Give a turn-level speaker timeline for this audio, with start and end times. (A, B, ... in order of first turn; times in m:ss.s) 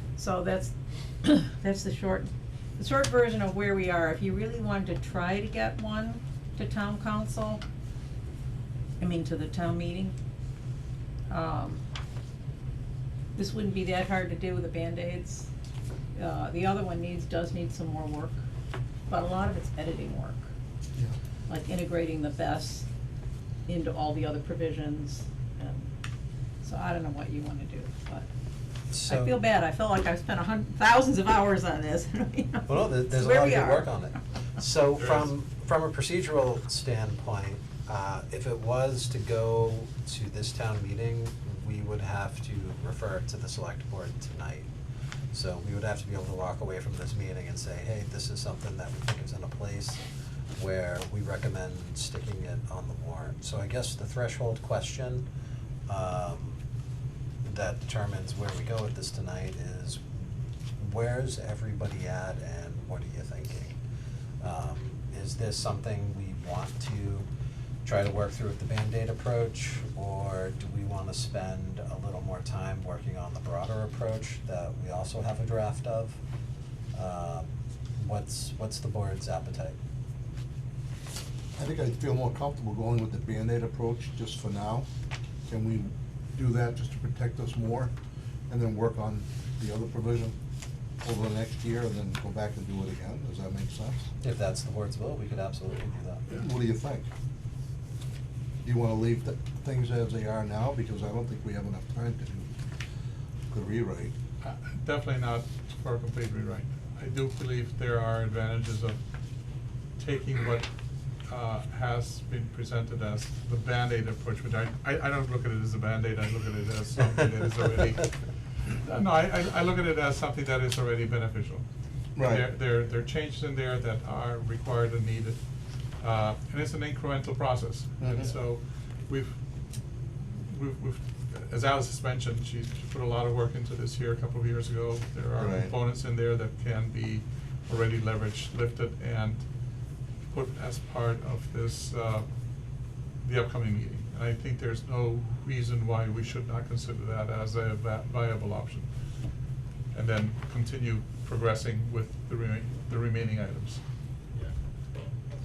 0:00.2-0:07.6 A
0:09.0-0:10.1 A
0:11.3-0:11.8 A
0:13.3-0:15.5 A
0:16.1-0:18.4 A
0:19.1-0:20.5 A
0:21.5-0:22.9 A
0:23.7-0:25.9 A
0:26.6-0:28.3 A
0:28.9-0:29.4 B
0:29.0-0:33.9 A
0:32.6-0:44.7 B
0:35.0-0:35.3 C
0:45.3-0:50.0 B
0:50.6-0:55.3 B
0:55.9-0:56.6 B
0:57.4-1:03.8 B
1:04.4-1:07.3 B
1:07.8-1:16.2 B
1:16.9-1:19.8 B
1:21.6-1:24.8 D
1:25.5-1:27.9 D
1:28.5-1:30.3 D
1:31.0-1:34.1 D
1:34.2-1:36.3 B
1:36.3-1:37.1 D
1:38.6-1:42.5 D
1:43.5-1:44.1 D
1:44.4-1:49.0 C
1:50.0-1:50.7 C
1:51.2-1:58.1 C
1:58.6-2:01.6 C
2:02.2-2:02.5 D
2:02.2-2:05.4 C
2:06.0-2:09.3 C
2:08.0-2:08.3 D
2:10.5-2:19.4 C
2:15.4-2:15.7 D
2:20.3-2:22.2 C
2:23.2-2:28.9 C
2:29.9-2:33.8 C